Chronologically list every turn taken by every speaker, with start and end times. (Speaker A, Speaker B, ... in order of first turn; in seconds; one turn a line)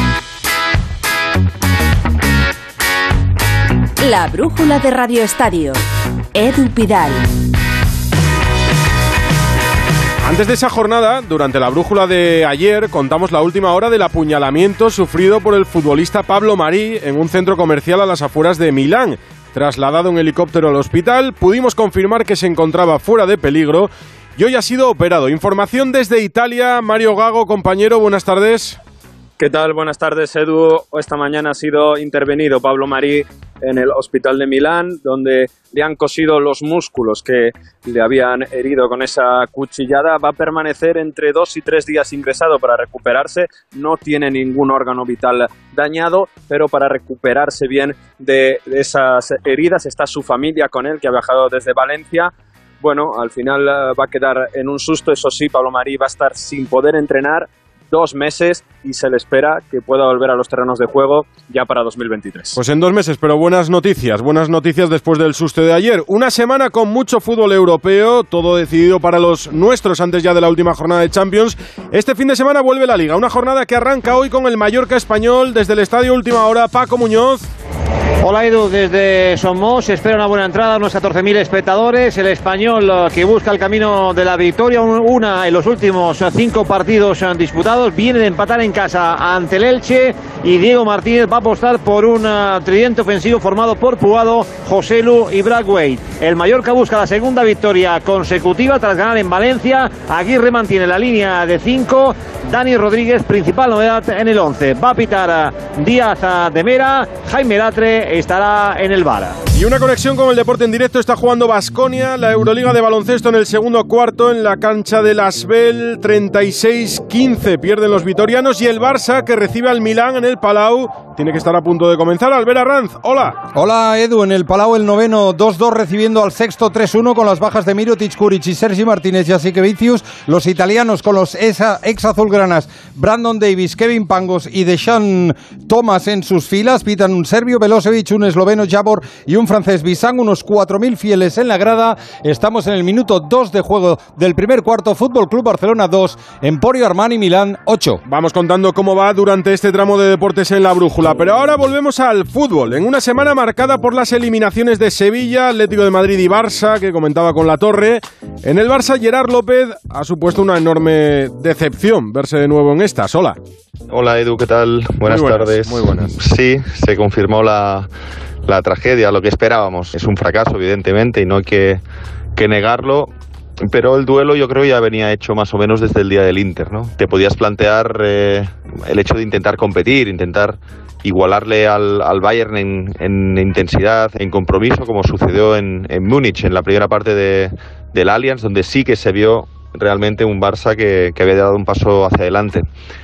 Speaker A: 4.0-5.8
Speaker A: 6.3-7.3
Speaker B: 10.2-28.8
Speaker C: 29.4-62.6
Speaker B: 62.6-77.4
Speaker D: 78.2-109.4
Speaker B: 109.5-123.4
Speaker E: 123.5-148.0
Speaker B: 148.1-163.4
Speaker F: 163.9-167.9
Speaker B: 165.1-166.2
Speaker F: 168.5-171.8
Speaker F: 172.3-192.7